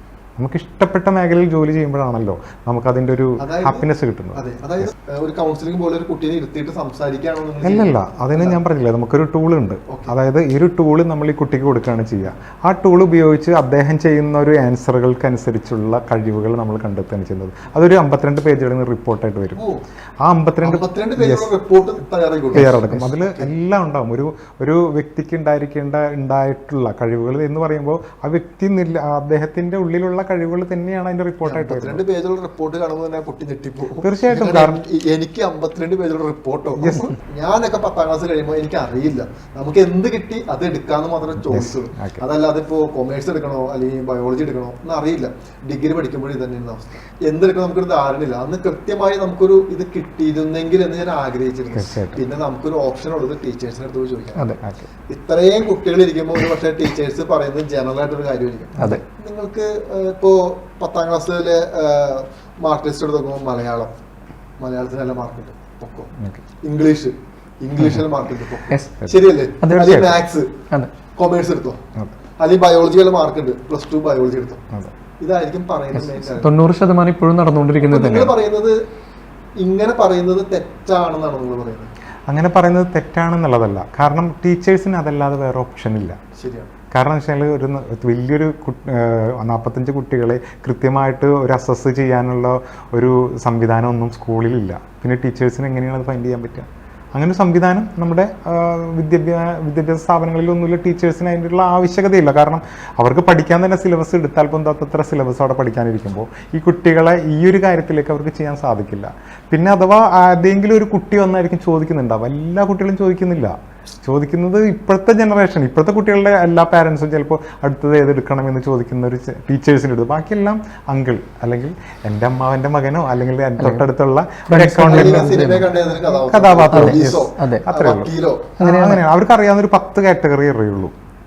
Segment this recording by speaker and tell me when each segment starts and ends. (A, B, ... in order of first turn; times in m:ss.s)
0:00.4-0:04.9 A
0:03.4-0:08.6 B
0:07.6-0:19.6 A
0:09.9-0:10.1 B
0:19.6-0:19.8 B
0:20.2-0:21.5 A
0:20.6-0:23.5 B
0:22.5-0:32.0 A
0:31.4-1:03.9 B
0:34.0-0:34.8 A
0:36.8-0:37.2 A
0:41.4-0:42.2 A
0:51.7-0:52.2 A
1:04.6-1:10.6 B
1:06.2-1:06.4 A
1:09.0-1:10.2 A
1:09.6-1:10.0 C
1:11.2-1:11.8 B
1:12.4-1:14.6 B
1:15.2-1:16.5 B
1:16.0-1:18.3 C
1:17.8-1:18.8 B
1:19.6-1:21.9 B
1:22.3-1:26.2 A
1:26.4-1:26.7 B
1:26.9-2:10.9 A
2:03.6-2:03.8 C
2:04.5-2:05.7 C
2:04.8-2:08.6 B
2:06.7-2:07.6 C
2:08.6-2:09.0 C